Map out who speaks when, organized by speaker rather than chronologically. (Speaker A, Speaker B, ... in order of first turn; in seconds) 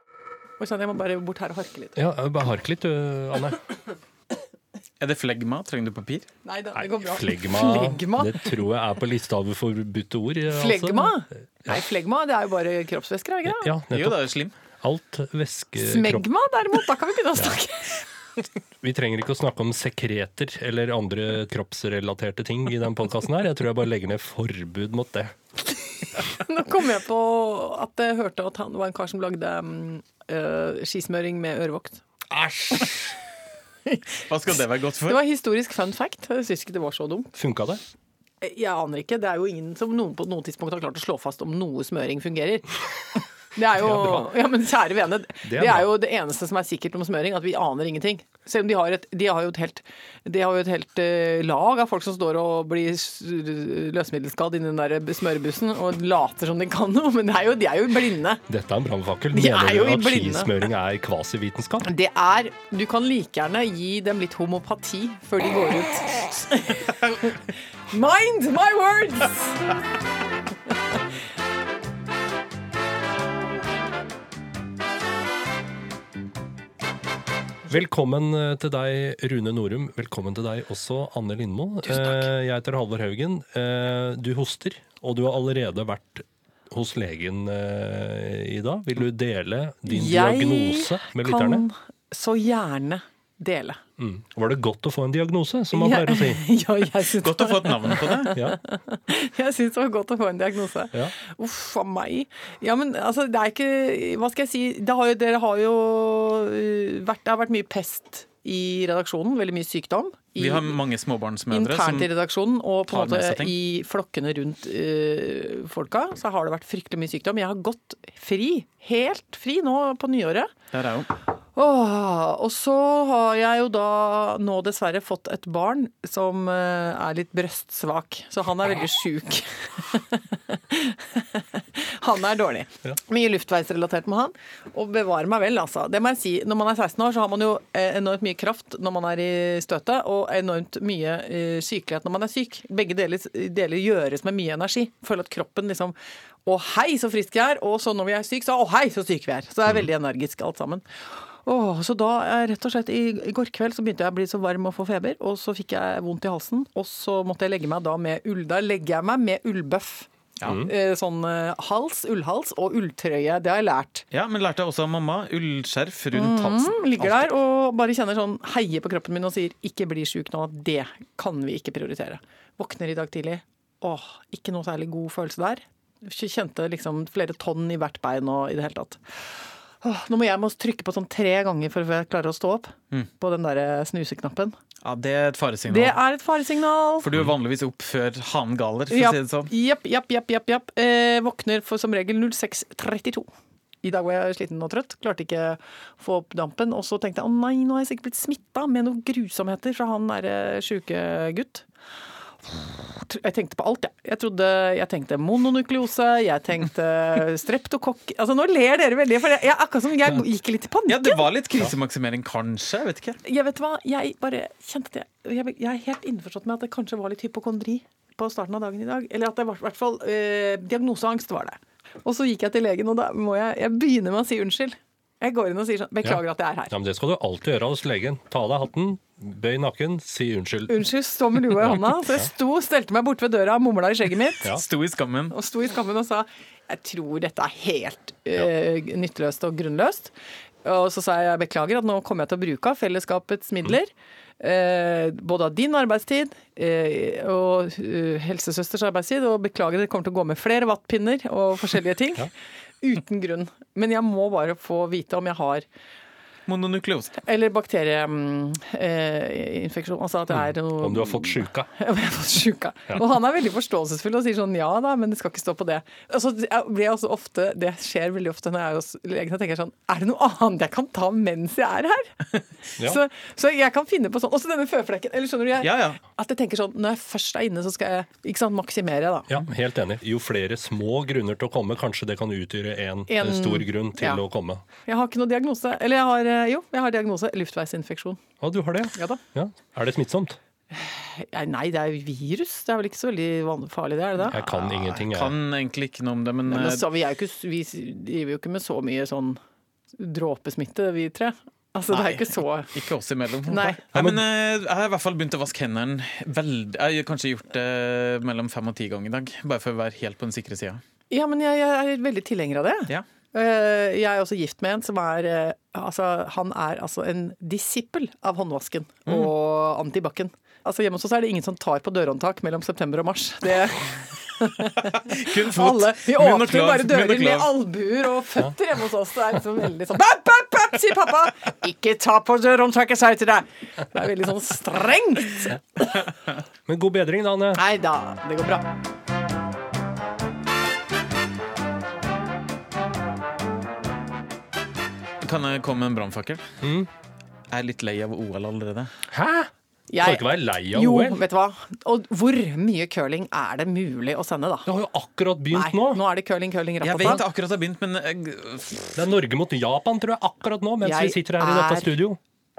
Speaker A: 0.6-2.0, 6.4-8.6, 10.5-13.7, 15.8-18.0, 26.2-32.0, 35.0-37.3, 38.4-42.7, 43.5-58.4, 59.3-60.6, 61.8-69.7, 89.9-93.8, 95.7-110.8, 111.5-120.5, 121.5-164.1, 166.1-184.6, 185.7-187.1, 188.9-193.3, 193.8-201.7, 202.4-211.3, 213.2-226.7, 230.7-234.5, 235.3-240.1, 240.6-255.7, 257.2-272.2, 272.8-279.4, 283.1-284.2, 284.8-288.2, 288.9-289.2, 290.7-294.5, 296.5-299.4, 300.0-302.7, 303.5-303.8, 311.1-335.8, 337.5-338.7, 349.9-354.7, 355.5-357.2, 360.8-362.0
Speaker B: 1.9-3.6, 6.7-11.8, 13.4-14.2, 14.8-16.3, 18.8-25.3, 32.3-33.1, 37.3-37.8, 43.8-44.3, 45.4-45.9, 58.5-61.9, 77.7-91.7, 94.0-96.4, 98.3-98.6, 226.0-230.8, 231.4-232.3, 260.3-261.7, 279.3-284.6, 288.4-290.4, 294.3-295.3, 303.9-304.2, 336.6-337.6, 346.6-346.9, 349.1-351.2, 354.6-356.0, 358.9-362.2
Speaker C: 5.0-6.3, 13.9-14.5, 34.3-35.2, 97.2-98.3, 110.4-112.1, 112.9-113.5, 120.7-121.1, 164.1-167.3, 184.8-186.0, 187.0-189.5, 210.9-213.2, 234.4-235.3, 256.5-257.2, 275.6-276.0, 294.5-296.9, 301.9-310.8, 324.8-327.5, 345.2-346.4, 347.5-348.9, 356.8-359.0